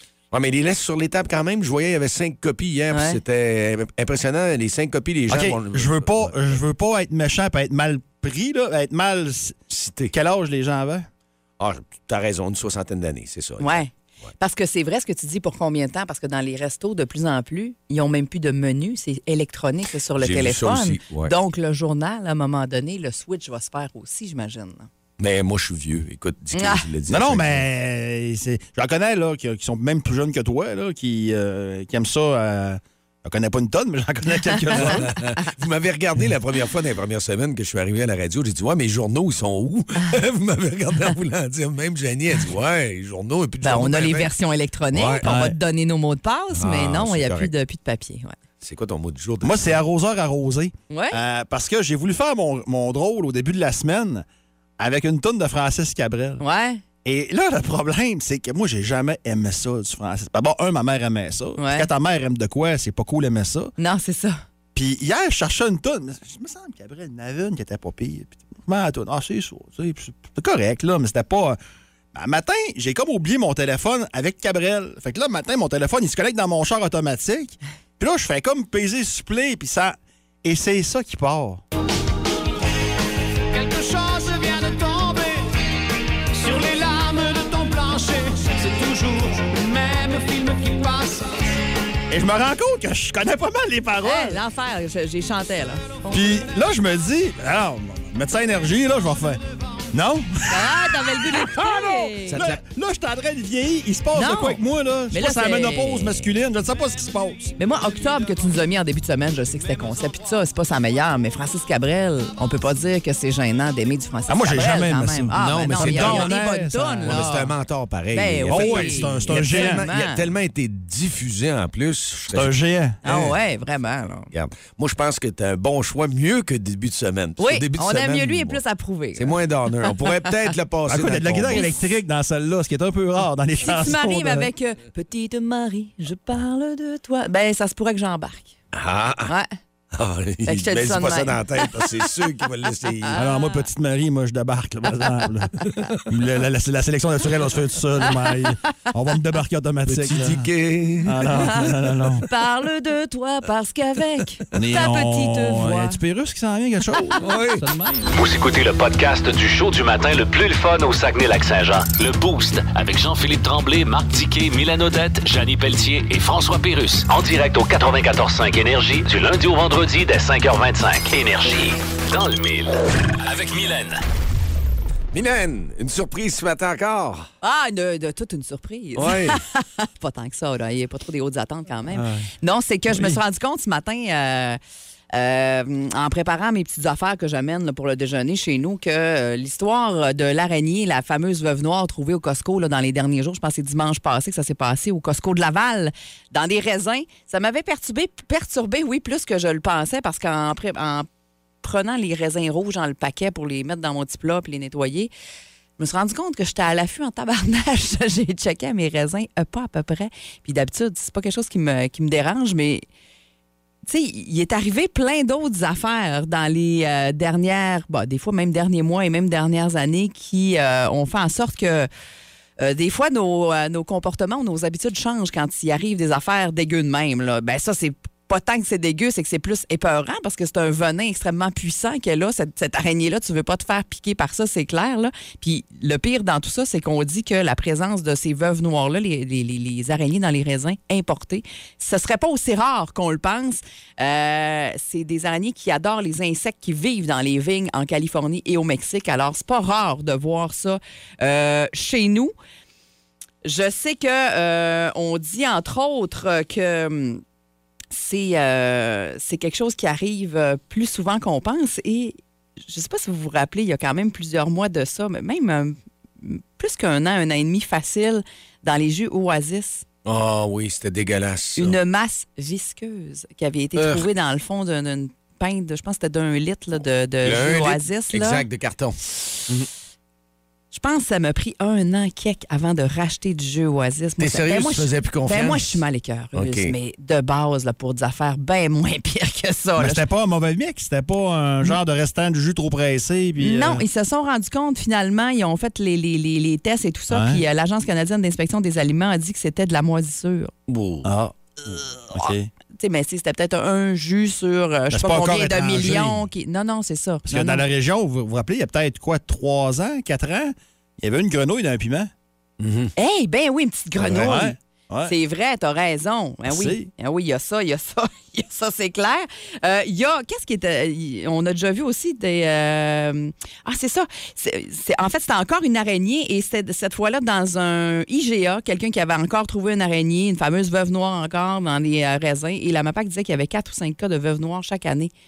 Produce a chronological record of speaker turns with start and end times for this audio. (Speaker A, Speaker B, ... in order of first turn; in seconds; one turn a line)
Speaker A: 0.3-6.6
Speaker B: 2.9-3.2
Speaker C: 5.3-9.6
Speaker A: 9.7-10.1
Speaker C: 10.1-11.1
Speaker A: 11.6-13.8
Speaker B: 13.6-24.9
Speaker A: 20.2-21.3
Speaker A: 25.2-27.6
Speaker B: 26.6-26.9
Speaker C: 27.1-35.1
Speaker B: 34.6-35.0
Speaker A: 34.7-44.3
Speaker B: 43.6-48.4
Speaker A: 44.9-45.2
Speaker C: 45.2-45.6
Speaker A: 46.5-47.5
Speaker A: 48.6-49.8
Speaker C: 49.4-54.2
Speaker B: 50.9-51.2
Speaker C: 54.8-56.4
Speaker B: 56.4-56.8
Speaker C: 57.0-63.7
Speaker B: 61.6-61.9
Speaker B: 63.8-64.4
Speaker C: 64.8-71.6
Speaker C: 72.1-81.6
Speaker D: 83.5-85.4
Speaker D: 86.3-91.3
Speaker C: 92.1-94.4
Speaker B: 94.0-96.1
Speaker C: 96.1-99.4
Speaker C: 99.9-100.7
Speaker B: 100.5-102.4
Speaker C: 101.3-107.5
Speaker B: 104.2-106.3
Speaker B: 107.6-117.5
Speaker C: 114.3-117.3
Speaker A: 115.3-116.3
Speaker A: 117.1-122.5
Speaker B: 118.1-120.3
Speaker C: 118.5-119.9
Speaker C: 122.3-123.2
Speaker B: 123.0-124.3
Speaker A: 124.3-128.6
Speaker B: 127.4-130.1
Speaker A: 129.2-131.6
Speaker C: 130.9-134.5
Speaker B: 131.5-131.8
Speaker B: 133.6-138.6
Speaker A: 138.7-139.3
Speaker B: 139.3-139.6
Speaker A: 139.9-143.2
Speaker B: 140.5-142.0
Speaker B: 143.1-143.6
Speaker C: 143.1-150.5
Speaker A: 145.7-145.9
Speaker B: 148.1-148.5
Speaker A: 149.9-151.7
Speaker C: 151.0-152.2
Speaker B: 151.3-156.0
Speaker C: 154.5-158.1
Speaker A: 157.2-157.6
Speaker E: 158.1-174.0
Speaker A: 175.1-177.3
Speaker B: 177.4-184.6
Speaker A: 179.0-179.4
Speaker C: 181.9-182.3
Speaker B: 185.1-201.1
Speaker B: 201.6-205.1
Speaker B: 205.8-212.8
Speaker B: 213.8-221.9
Speaker B: 222.6-252.3
Speaker B: 253.4-257.2
Speaker B: 257.9-269.8
Speaker A: 270.1-271.8
Speaker B: 271.6-278.4
Speaker A: 273.8-274.1
Speaker A: 277.2-279.7
Speaker B: 280.7-290.0
Speaker A: 284.2-285.8
Speaker A: 286.3-286.7
Speaker C: 289.8-293.8
Speaker B: 293.4-300.5
Speaker C: 297.1-297.4
Speaker A: 300.7-301.1
Speaker C: 301.0-301.4
Speaker B: 302.0-307.7
Speaker C: 302.1-302.5
Speaker C: 304.9-306.3
Speaker C: 307.3-312.1
Speaker A: 312.6-312.9
Speaker B: 313.0-335.1
Speaker A: 314.0-314.3
Speaker C: 314.1-315.1
Speaker C: 316.5-316.9